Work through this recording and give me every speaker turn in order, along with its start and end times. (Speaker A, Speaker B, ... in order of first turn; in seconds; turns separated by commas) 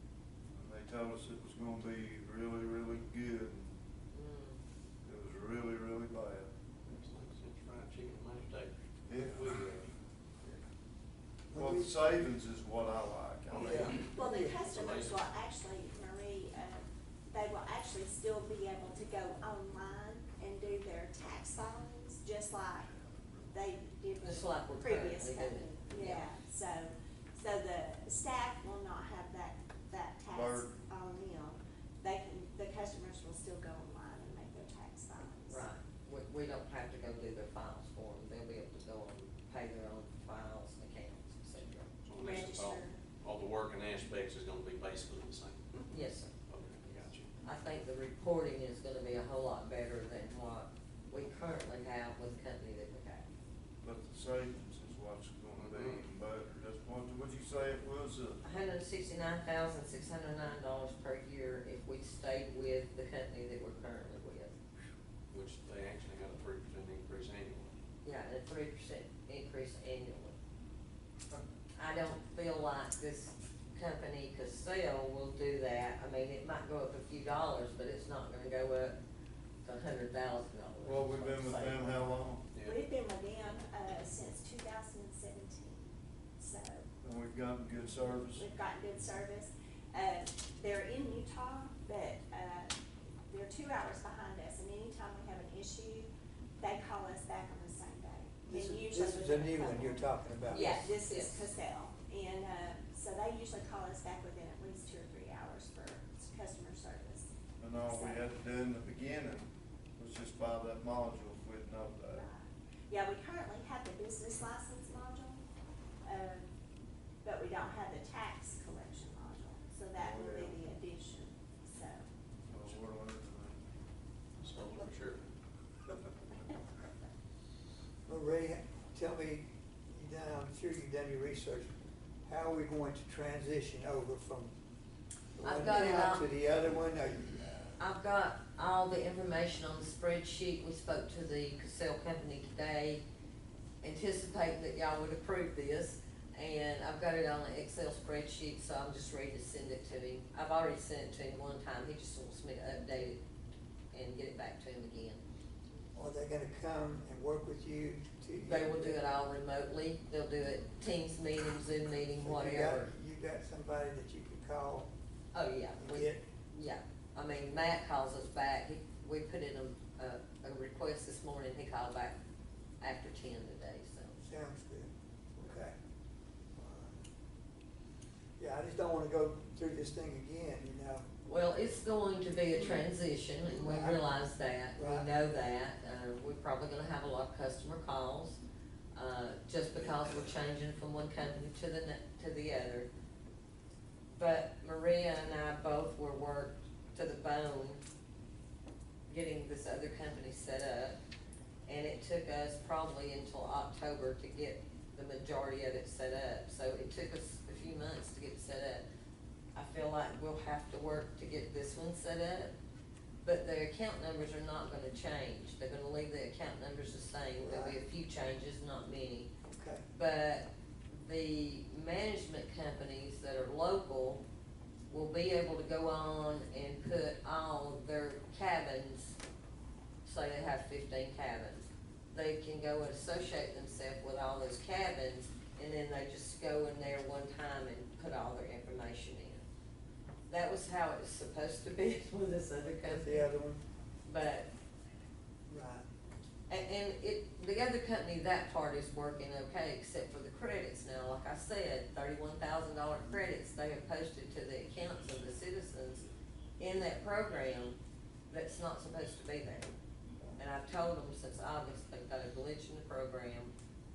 Speaker A: 0.5-3.7, Speaker B: 4.1-4.6, Speaker A: 5.0-6.5, Speaker C: 6.8-9.9, Speaker A: 9.1-9.7, Speaker D: 11.5-12.0, Speaker A: 11.5-14.0, Speaker D: 13.5-14.5, Speaker C: 13.5-14.0, Speaker E: 14.1-22.9, Speaker C: 14.6-15.2, Speaker E: 23.5-35.6, Speaker B: 24.2-26.2, Speaker A: 30.3-30.7, Speaker B: 35.5-41.9, Speaker C: 42.0-45.8, Speaker E: 42.1-43.0, Speaker B: 45.9-46.3, Speaker C: 46.5-47.3, Speaker B: 47.4-53.2, Speaker A: 53.8-58.4, Speaker C: 55.6-56.0, Speaker B: 58.4-64.6, Speaker C: 65.3-67.7, Speaker B: 68.0-70.4, Speaker B: 71.8-79.0, Speaker B: 79.6-81.9, Speaker A: 80.8-82.4, Speaker C: 82.5-82.8, Speaker E: 82.6-85.8, Speaker E: 86.4-86.8, Speaker A: 87.0-88.4, Speaker E: 88.3-92.7, Speaker E: 93.3-108.3, Speaker D: 98.5-100.8, Speaker B: 100.5-101.5, Speaker A: 107.6-112.2, Speaker E: 112.1-115.4, Speaker E: 116.0-116.5, Speaker E: 117.2-122.0, Speaker A: 120.0-120.6, Speaker A: 122.5-123.6, Speaker C: 124.4-125.3, Speaker D: 128.1-134.5, Speaker D: 135.4-137.7, Speaker B: 135.4-136.2, Speaker B: 137.8-143.0, Speaker B: 143.8-153.2, Speaker B: 153.9-155.2, Speaker D: 155.9-159.0, Speaker B: 158.4-162.9, Speaker D: 162.2-164.9, Speaker B: 165.3-172.2, Speaker D: 165.8-166.2, Speaker B: 172.8-174.2, Speaker D: 174.2-175.7, Speaker D: 176.6-177.0, Speaker D: 178.4-181.0, Speaker B: 181.2-188.4, Speaker D: 183.6-184.0, Speaker D: 184.8-185.1, Speaker B: 188.9-192.9, Speaker B: 194.1-197.8, Speaker B: 199.1-201.0, Speaker B: 201.7-208.8, Speaker B: 209.5-212.5, Speaker B: 213.2-219.3, Speaker D: 217.4-217.8, Speaker D: 219.5-219.8, Speaker B: 219.9-224.2, Speaker B: 224.9-229.2, Speaker B: 230.0-239.4, Speaker B: 240.3-243.2, Speaker D: 242.8-243.6, Speaker B: 244.1-244.5, Speaker D: 245.5-245.8, Speaker B: 246.5-256.0, Speaker B: 256.6-257.8, Speaker B: 258.3-259.7, Speaker B: 260.4-263.5